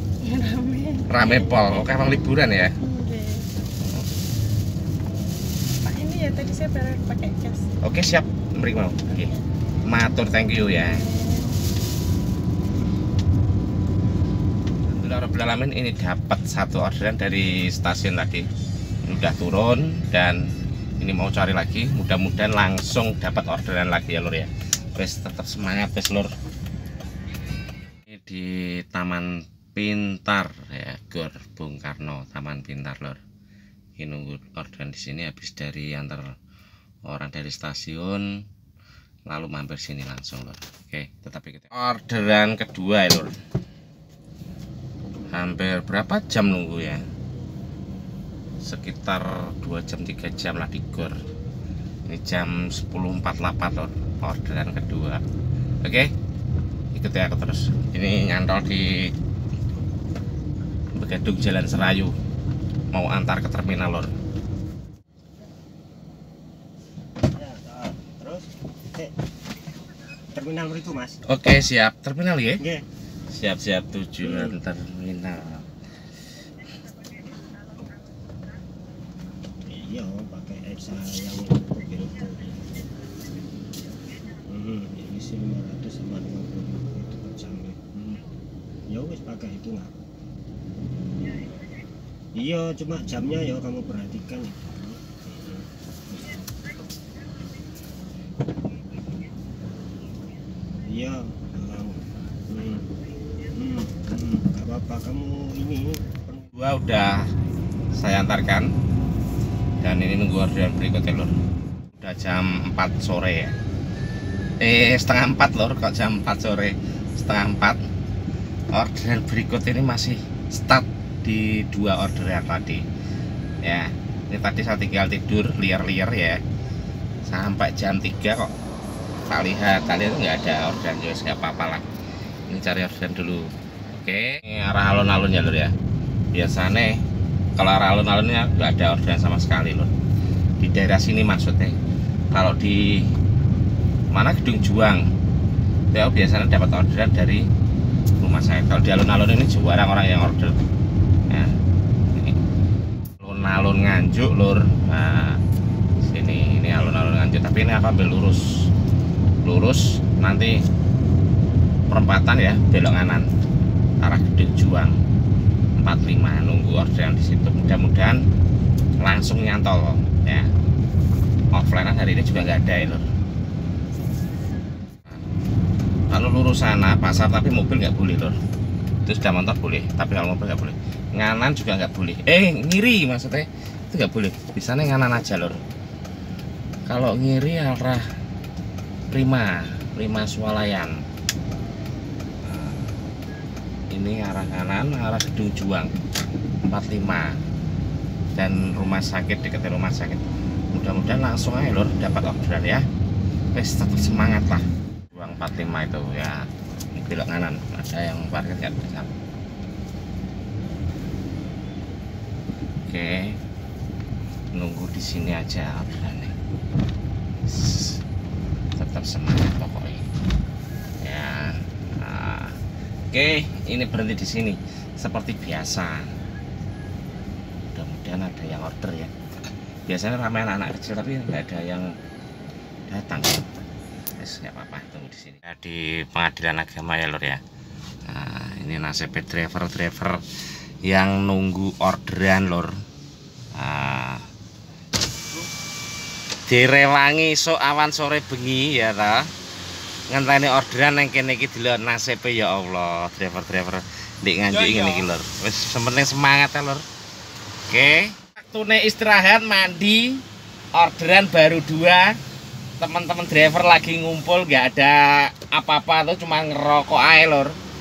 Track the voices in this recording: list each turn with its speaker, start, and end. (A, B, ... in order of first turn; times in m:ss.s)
0:00.2-0:01.6 A
0:01.0-0:02.8 B
0:02.8-0:03.7 A
0:03.8-0:04.1 B
0:05.8-0:07.6 A
0:07.8-0:11.1 B
0:11.0-0:11.5 A
0:14.9-0:18.5 B
0:19.0-0:20.5 B
0:21.0-0:26.3 B
0:28.1-0:33.2 B
0:34.0-0:36.3 B
0:37.1-0:38.2 B
0:39.3-0:43.3 B
0:45.3-0:47.0 B
0:48.6-0:51.1 B
0:52.1-0:55.2 B
0:55.8-0:56.1 B
0:56.9-0:59.1 B
1:01.0-1:02.1 B
1:02.9-1:04.1 B
1:07.3-1:09.1 C
1:10.3-1:11.2 C
1:11.3-1:12.6 B
1:12.6-1:12.8 C
1:13.3-1:15.7 B
1:14.2-1:14.6 C
1:19.6-1:22.8 C
1:24.4-1:28.2 C
1:28.9-1:30.0 C
1:32.3-1:36.4 C
1:40.8-1:42.9 C
1:43.5-1:46.5 C
1:46.5-1:47.2 B
1:47.9-1:48.7 B
1:49.8-1:51.3 B
1:51.9-1:53.5 B
1:54.6-1:57.8 B
1:58.7-2:02.8 B
2:03.6-2:06.4 B
2:07.2-2:08.5 B
2:09.3-2:11.9 B
2:12.5-2:15.7 B
2:16.3-2:17.0 B
2:17.6-2:19.9 B
2:20.6-2:21.8 B
2:22.3-2:23.1 B
2:24.1-2:25.0 B
2:25.9-2:27.4 B
2:28.2-2:30.5 B
2:33.2-2:35.4 B
2:36.0-2:38.4 B
2:39.4-2:40.5 B
2:41.9-2:43.3 B
2:44.0-2:45.0 B
2:45.8-2:48.2 B
2:49.0-2:50.5 B
2:51.5-2:53.0 B
2:56.1-2:58.4 B
2:59.0-3:05.6 B
3:06.9-3:08.0 B
3:09.1-3:10.9 B
3:12.4-3:12.9 B
3:13.9-3:15.9 B
3:16.6-3:17.4 B
3:18.4-3:22.8 B
3:23.5-3:29.1 B
3:32.9-3:33.4 B
3:34.5-3:36.3 B
3:37.4-3:38.0 B
3:38.8-3:40.0 B
3:41.0-3:42.6 B
3:43.1-3:46.1 B
3:47.7-3:49.1 B
3:49.9-3:51.9 B
3:52.9-3:53.5 B
3:54.2-3:57.4 B
3:58.0-4:00.2 B
4:00.8-4:02.7 B
4:03.5-4:04.2 B
4:06.5-4:09.3 B
4:10.1-4:16.8 B
4:17.7-4:20.2 B
4:20.7-4:22.2 B
4:22.8-4:27.6 B